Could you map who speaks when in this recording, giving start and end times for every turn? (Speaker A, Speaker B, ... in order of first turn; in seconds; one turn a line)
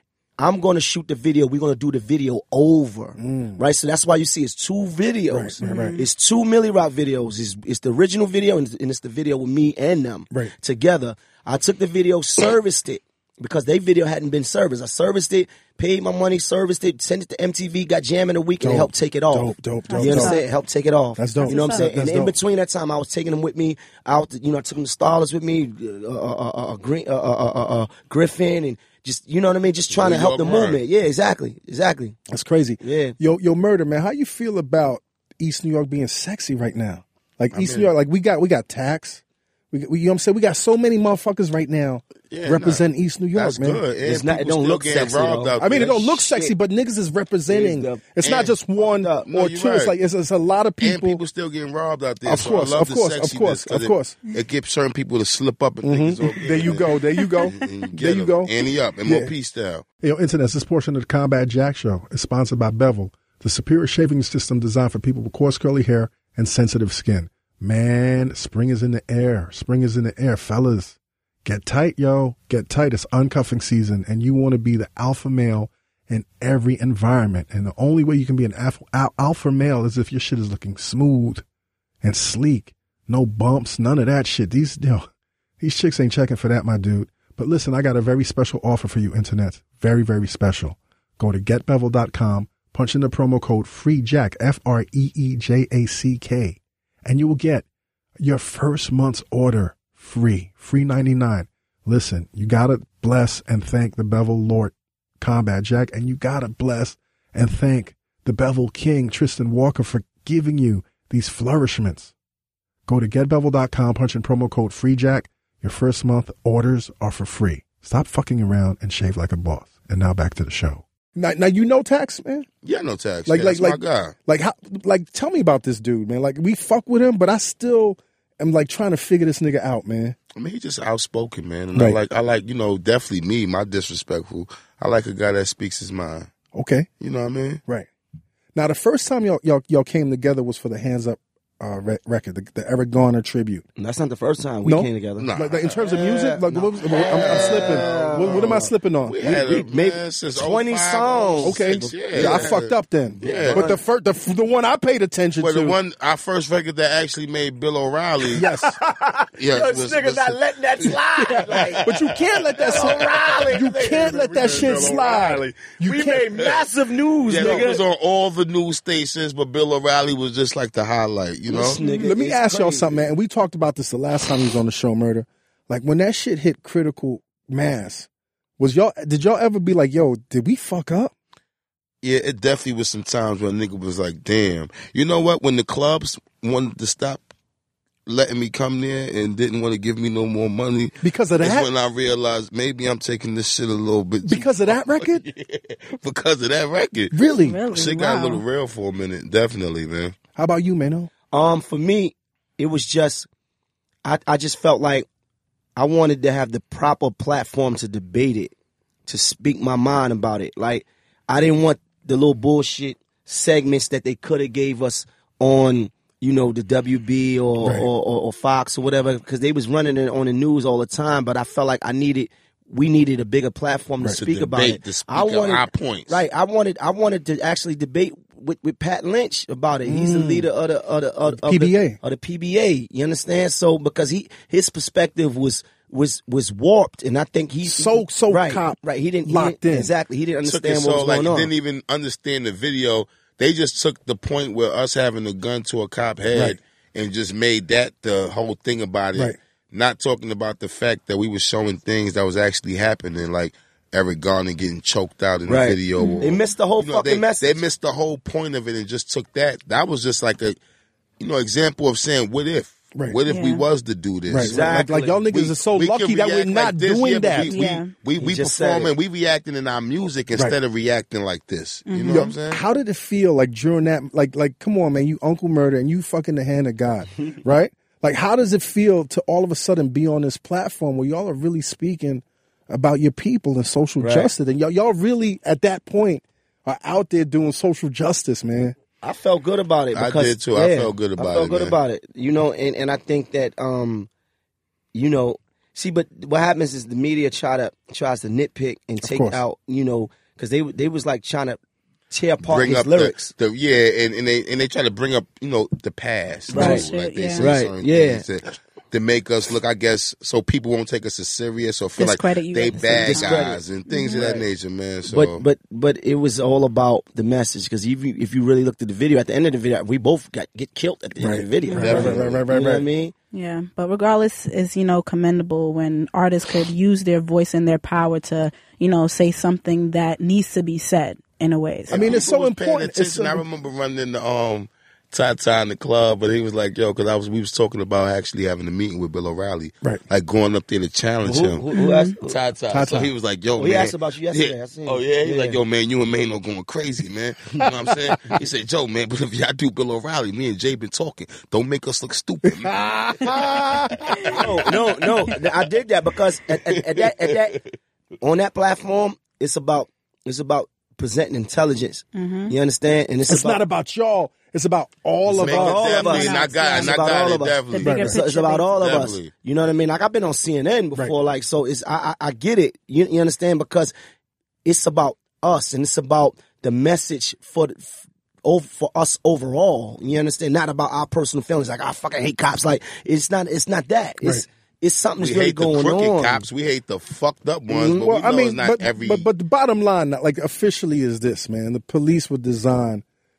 Speaker A: 0.4-32.2
Speaker B: 3.2-3.6
Speaker B: 5.3-6.0
Speaker C: 5.6-6.0
Speaker B: 18.6-20.4
Speaker C: 19.9-20.4
Speaker B: 21.2-22.3
Speaker C: 21.4-21.9
Speaker D: 29.9-30.8
Speaker B: 32.3-43.8
Speaker A: 32.8-33.1
Speaker D: 37.5-37.9
Speaker D: 42.3-46.2
Speaker A: 44.0-46.5
Speaker B: 45.6-51.2
Speaker A: 47.5-48.1
Speaker D: 48.2-48.6
Speaker A: 48.8-49.3
Speaker D: 49.2-50.0
Speaker D: 50.8-59.9
Speaker B: 52.2-54.1
Speaker B: 55.8-58.5
Speaker B: 59.0-59.3
Speaker B: 60.0-81.4
Speaker B: 82.0-85.1
Speaker B: 85.6-97.6
Speaker B: 98.2-112.1
Speaker B: 112.9-122.5
Speaker D: 122.6-124.1
Speaker B: 123.3-130.2
Speaker D: 130.3-136.3
Speaker B: 131.7-132.0
Speaker B: 136.5-136.9
Speaker D: 137.0-137.6
Speaker B: 138.6-143.6
Speaker A: 143.8-145.3
Speaker B: 144.6-149.2
Speaker D: 145.2-153.7
Speaker A: 145.8-152.6
Speaker B: 151.4-155.8
Speaker A: 153.2-153.8
Speaker D: 155.4-158.5
Speaker B: 158.3-158.8
Speaker A: 158.4-161.9
Speaker D: 159.3-166.7
Speaker B: 161.8-166.3
Speaker A: 162.6-167.8
Speaker D: 167.3-171.8
Speaker B: 167.3-167.7
Speaker A: 171.5-173.1
Speaker C: 171.8-172.1
Speaker B: 172.0-178.1
Speaker B: 178.6-181.1
Speaker D: 182.0-187.3
Speaker D: 188.1-197.1
Speaker B: 191.0-191.7
Speaker B: 194.2-195.2
Speaker B: 197.1-197.6
Speaker C: 197.4-198.4
Speaker D: 197.7-200.1
Speaker B: 200.4-201.1
Speaker A: 201.3-203.3
Speaker A: 204.0-205.1
Speaker A: 205.8-208.5
Speaker A: 209.1-241.5
Speaker B: 217.6-217.9
Speaker D: 224.1-226.2
Speaker B: 229.9-230.5
Speaker B: 231.3-232.0
Speaker B: 237.7-239.9
Speaker D: 240.4-260.6
Speaker B: 246.3-246.6
Speaker A: 255.5-257.6
Speaker C: 256.0-256.2
Speaker D: 261.2-272.6
Speaker C: 263.3-263.6
Speaker B: 264.3-267.7
Speaker A: 264.4-265.2
Speaker C: 267.5-267.9
Speaker A: 268.2-268.9
Speaker C: 271.9-272.3
Speaker B: 272.1-288.8
Speaker A: 284.0-284.3
Speaker A: 289.0-294.1
Speaker D: 289.9-291.8
Speaker A: 294.9-303.3
Speaker B: 299.0-299.4
Speaker D: 302.4-315.4
Speaker A: 306.5-306.9
Speaker C: 306.5-307.5
Speaker A: 307.4-308.2
Speaker C: 312.0-314.4
Speaker A: 313.0-313.6
Speaker A: 315.1-323.1
Speaker B: 321.2-322.9
Speaker C: 321.6-322.0
Speaker D: 321.8-322.4
Speaker C: 323.3-332.2
Speaker D: 331.9-341.6
Speaker B: 331.9-333.4
Speaker A: 341.2-342.4
Speaker C: 341.7-342.1
Speaker D: 342.2-355.5
Speaker B: 342.7-343.1
Speaker A: 343.6-345.6
Speaker B: 352.4-354.4
Speaker A: 354.3-357.6
Speaker D: 356.5-357.6
Speaker A: 358.2-363.6
Speaker C: 362.1-362.5
Speaker B: 363.3-365.9
Speaker D: 365.3-368.1
Speaker A: 365.4-373.9
Speaker C: 365.9-367.0
Speaker C: 367.7-368.8
Speaker B: 367.8-368.2
Speaker D: 368.8-369.3
Speaker A: 374.6-386.4
Speaker D: 385.2-389.3
Speaker A: 387.7-388.0
Speaker B: 387.8-393.0